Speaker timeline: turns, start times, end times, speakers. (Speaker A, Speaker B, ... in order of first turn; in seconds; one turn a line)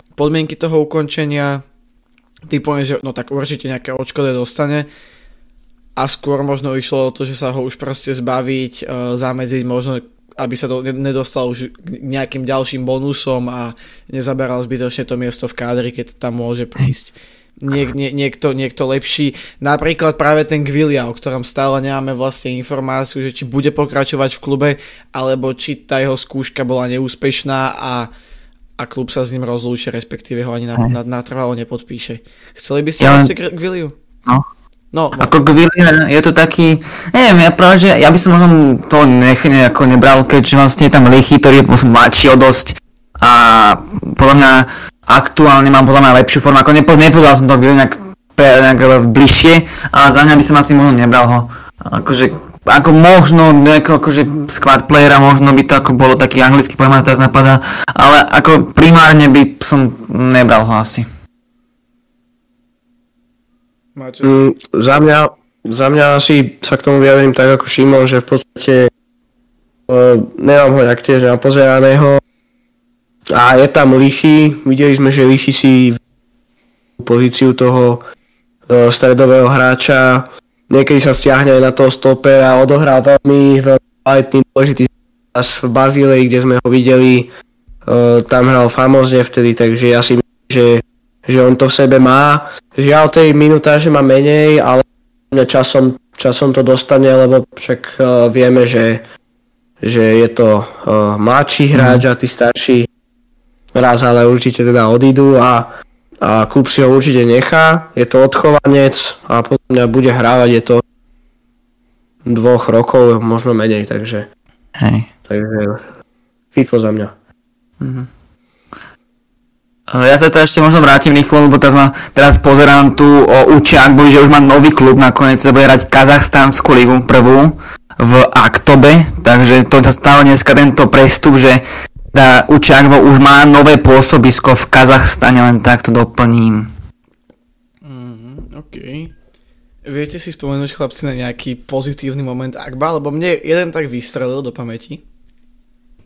Speaker A: 0.2-1.6
Speaker A: 2.5-4.9
Speaker A: 6.0-28.1
Speaker A: 28.8-34.0
Speaker B: 33.0-33.3
Speaker A: 34.9-35.3
Speaker B: 35.2-61.1
Speaker A: 64.0-64.4
Speaker C: 64.2-68.9
Speaker C: 69.9-72.2
Speaker C: 73.3-76.0
Speaker C: 77.0-78.0
Speaker C: 78.7-87.3
Speaker C: 87.8-99.0
Speaker C: 99.8-102.9
Speaker B: 101.7-102.0
Speaker C: 103.7-105.7
Speaker C: 106.2-110.8
Speaker C: 112.2-114.3
Speaker B: 114.8-115.1
Speaker C: 115.3-115.8
Speaker C: 116.5-117.1
Speaker B: 117.8-118.1
Speaker B: 119.9-136.7
Speaker A: 137.8-139.1
Speaker A: 139.8-145.0